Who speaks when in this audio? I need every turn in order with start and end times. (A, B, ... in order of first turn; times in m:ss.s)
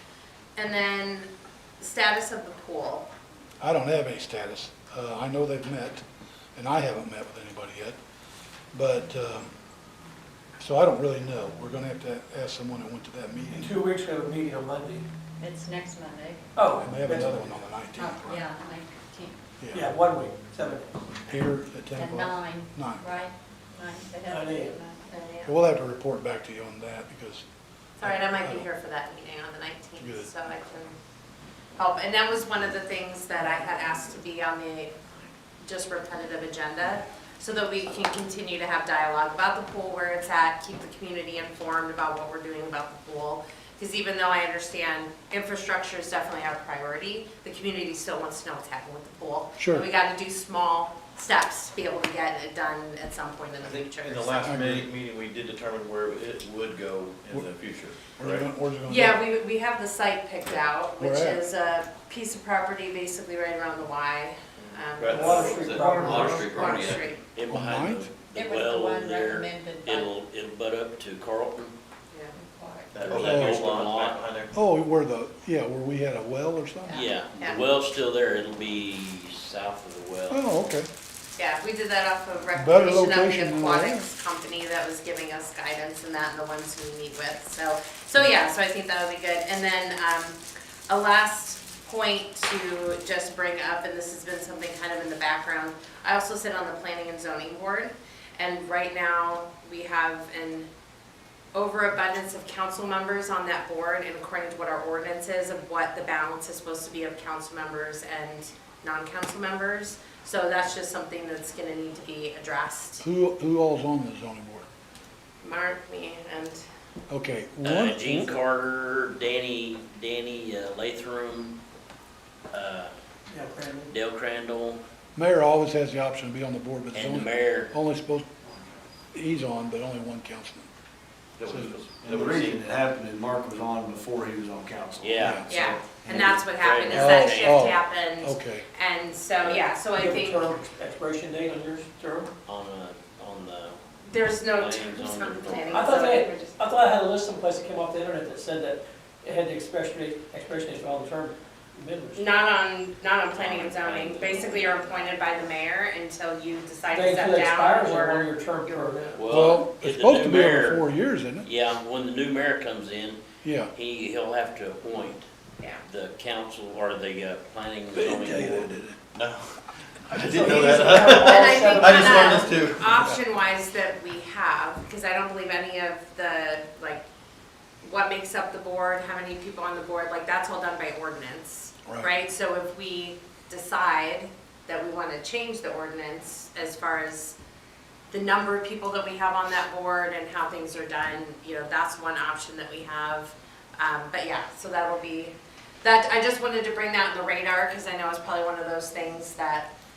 0:00.6-0:01.3 A
0:01.8-0:03.1 A
0:03.6-0:06.0 B
0:06.6-0:08.0 B
0:08.7-0:09.5 B
0:10.6-0:13.7 B
0:13.6-0:15.0 C
0:15.4-0:16.4 D
0:16.6-0:17.5 C
0:16.8-0:18.4 B
0:17.9-0:19.4 D
0:19.6-0:19.9 B
0:19.7-0:20.9 C
0:21.3-0:23.1 B
0:21.9-0:25.2 D
0:24.3-0:24.7 C
0:25.1-0:25.5 A
0:25.4-0:27.4 B
0:28.0-0:30.9 A
0:28.0-0:28.6 B
0:30.0-0:30.3 B
0:31.8-0:34.9 A
0:35.6-0:54.5 A
0:49.6-0:49.8 B
0:53.6-0:58.5 E
0:54.5-0:54.8 B
0:58.2-0:59.2 B
0:58.8-1:07.2 A
1:01.0-1:01.4 B
1:05.0-1:07.1 E
1:05.1-1:06.8 C
1:05.3-1:05.7 D
1:07.3-1:11.7 F
1:07.5-1:08.1 B
1:08.3-1:10.1 D
1:12.3-1:13.0 D
1:12.9-1:14.6 E
1:13.1-1:14.2 F
1:13.1-1:13.6 B
1:14.5-1:17.0 B
1:16.9-1:17.6 A
1:16.9-1:20.4 F
1:20.3-1:20.9 B
1:21.4-1:30.4 A
1:22.6-1:24.1 B
1:30.9-1:40.7 A
1:41.5-1:53.0 A
1:53.0-1:54.7 B
1:55.4-1:56.6 A
1:57.1-1:58.4 B
1:57.6-2:01.6 F
2:02.5-2:02.9 F
2:03.3-2:03.9 C
2:03.9-2:04.8 F
2:05.2-2:08.3 B
2:06.9-2:07.7 F
2:09.1-2:10.7 B
2:11.4-2:12.6 E
2:12.0-2:16.3 G
2:15.0-2:15.4 F
2:15.2-2:15.5 B
2:15.4-2:20.5 A
2:16.0-2:17.8 F
2:16.9-2:18.6 B
2:19.9-2:22.3 C
2:22.4-2:23.8 F
2:24.0-2:26.6 A
2:24.5-2:26.0 F
2:25.7-2:32.2 C
2:32.2-2:39.0 A
2:33.3-2:35.5 F
2:36.9-2:39.2 C
2:39.1-2:40.9 F
2:39.3-2:41.5 B
2:41.4-2:43.2 F
2:43.4-2:43.7 B
2:43.7-2:45.3 F
2:45.8-2:48.7 F
2:47.9-2:49.0 B
2:49.1-2:52.8 E
2:50.1-2:51.0 B
2:50.2-2:52.6 C
2:50.5-2:57.0 A
2:52.9-2:53.2 B
2:57.8-3:07.4 A
3:08.1-3:19.7 A